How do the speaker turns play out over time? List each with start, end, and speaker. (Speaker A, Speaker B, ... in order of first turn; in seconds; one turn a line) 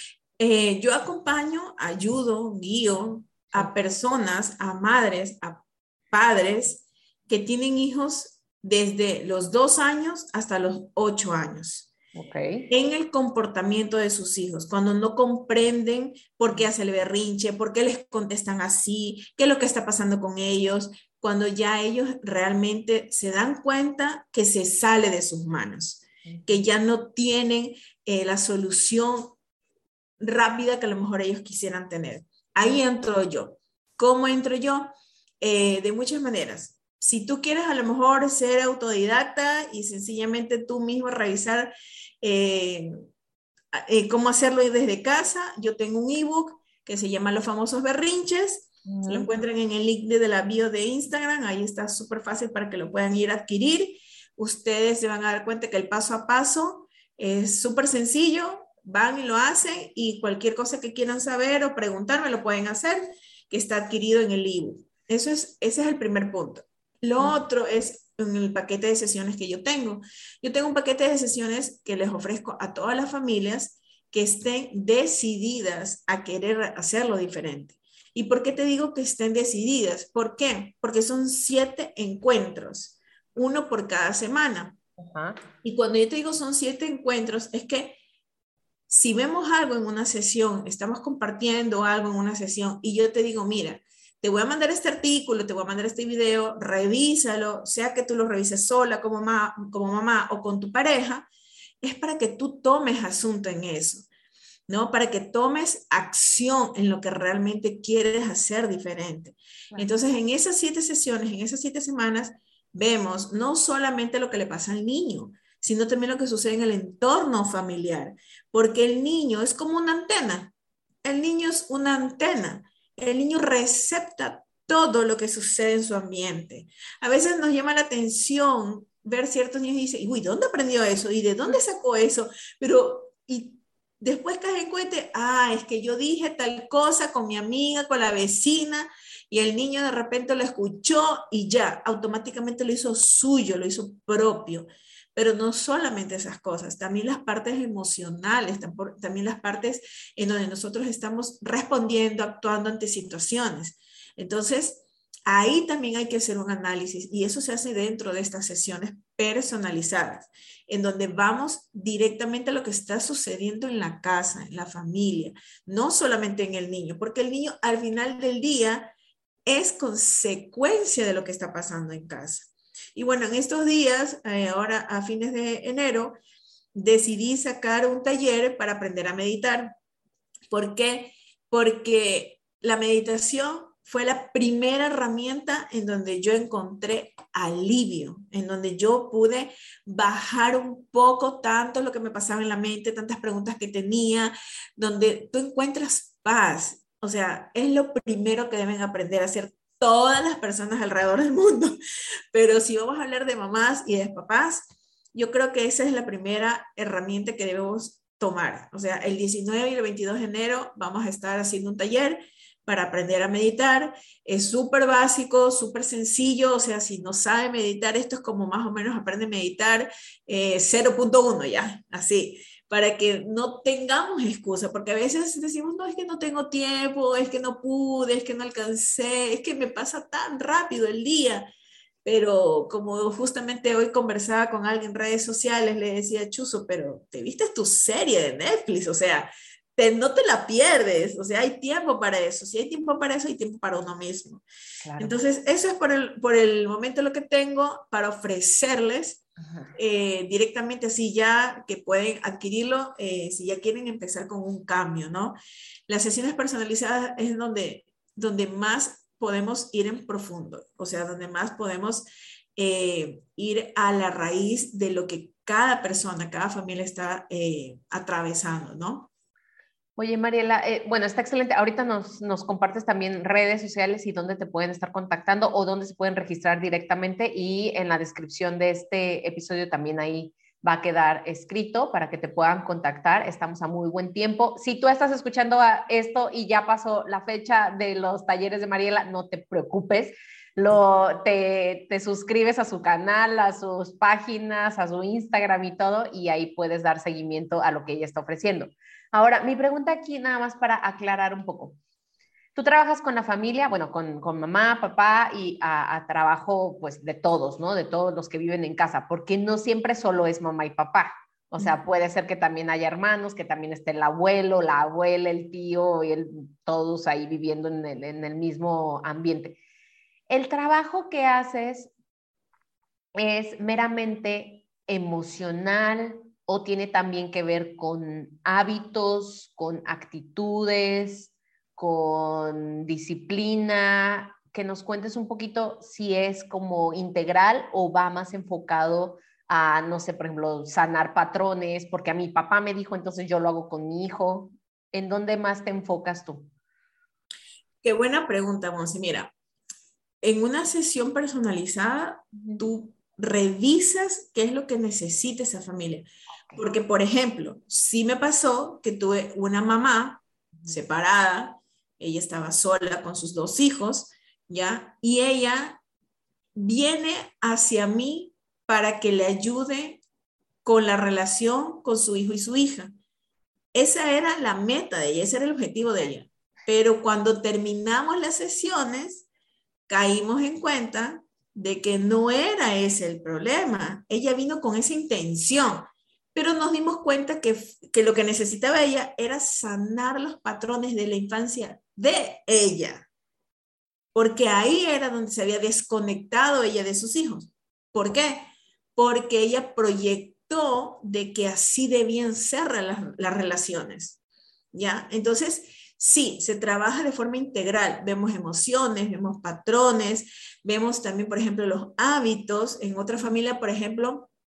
Speaker A: 0.4-11.9
Speaker B: 12.2-12.7
Speaker A: 12.7-29.4
Speaker B: 26.3-26.6
Speaker A: 30.2-42.9
Speaker A: 43.7-84.8
Speaker B: 48.9-49.3
Speaker B: 85.0-85.4
Speaker A: 85.6-88.0
Speaker A: 88.9-101.3
Speaker A: 101.8-104.1
Speaker A: 104.7-120.5
Speaker A: 121.0-168.9
Speaker A: 169.4-176.2
Speaker A: 176.8-179.8
Speaker A: 180.5-201.8
Speaker A: 202.3-231.5
Speaker A: 232.1-244.4
Speaker B: 244.8-245.2
Speaker A: 245.0-249.2
Speaker B: 249.4-249.7
Speaker A: 249.8-255.4
Speaker A: 255.9-269.1
Speaker B: 270.0-301.8
Speaker B: 302.6-319.6
Speaker B: 320.3-321.9
Speaker B: 323.1-346.5
Speaker A: 347.8-349.3
Speaker A: 350.2-365.8
Speaker B: 352.4-352.6
Speaker A: 366.6-370.0
Speaker A: 370.6-372.9
Speaker A: 373.7-379.3
Speaker A: 379.9-393.1
Speaker A: 394.1-404.2
Speaker A: 404.7-414.3